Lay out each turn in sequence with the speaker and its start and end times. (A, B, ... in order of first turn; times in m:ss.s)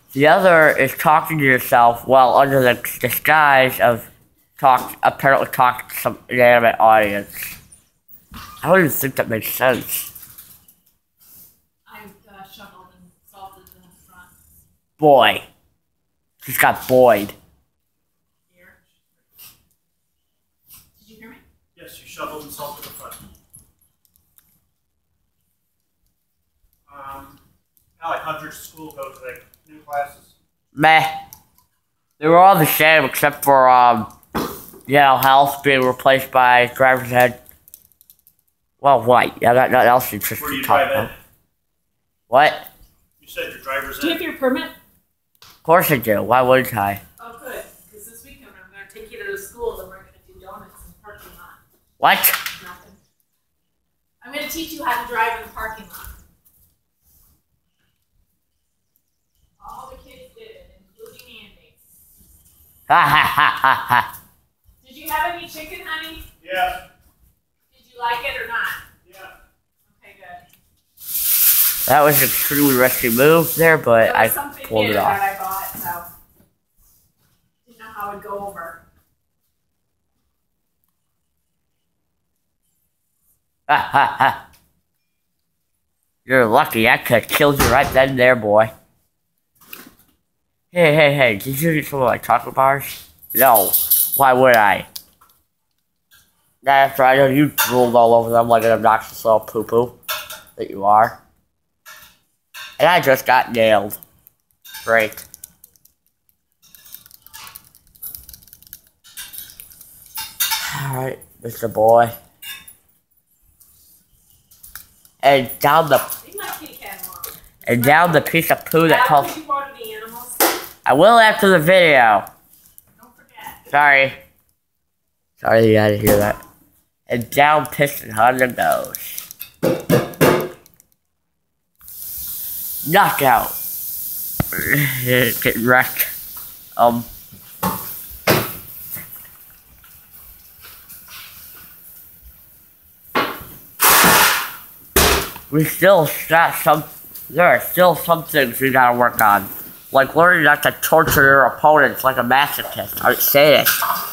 0:00.1-0:07.6 A
0:08.6-0:10.1 A
0:11.9-0:14.3 B
0:15.0-0:15.5 A
0:16.4-0:17.4 A
0:18.5-0:18.8 B
0:21.0-0:21.4 B
0:21.8-0:23.2 C
0:26.9-0:27.4 C
0:28.0-0:30.4 C
0:30.7-0:31.2 A
0:32.2-0:34.1 A
0:34.9-0:37.4 A
0:38.8-0:41.1 A
0:40.4-0:41.1 C
0:42.3-0:42.7 A
0:43.2-0:44.2 C
0:44.0-0:44.7 B
0:45.6-0:47.0 A
0:47.2-0:51.6 B
0:52.0-0:52.4 A
0:52.5-0:53.0 B
0:54.2-0:56.1 B
0:59.6-1:01.8 B
1:02.9-1:04.1 A
1:04.8-1:06.3 B
1:06.4-1:06.8 C
1:07.7-1:08.8 B
1:09.0-1:09.4 C
1:09.9-1:10.4 B
1:11.9-1:15.2 A
1:14.0-1:16.1 B
1:17.6-1:18.8 B
1:23.7-1:24.4 A
1:26.3-1:28.7 A
1:30.7-1:34.9 A
1:36.6-1:40.0 A
1:40.6-1:41.2 A
1:42.8-1:44.0 A
1:44.8-1:45.3 A
1:50.6-1:52.1 A
1:55.2-1:56.1 A
1:56.2-1:58.3 B
1:57.6-1:59.3 A
1:58.8-2:00.5 B
2:00.8-2:02.3 A
2:03.0-2:03.6 B
2:03.7-2:04.2 A
2:05.4-2:06.4 A
2:07.1-2:09.3 A
2:12.8-2:13.6 A
2:14.5-2:16.1 A
2:16.8-2:17.1 A
2:25.5-2:33.8 A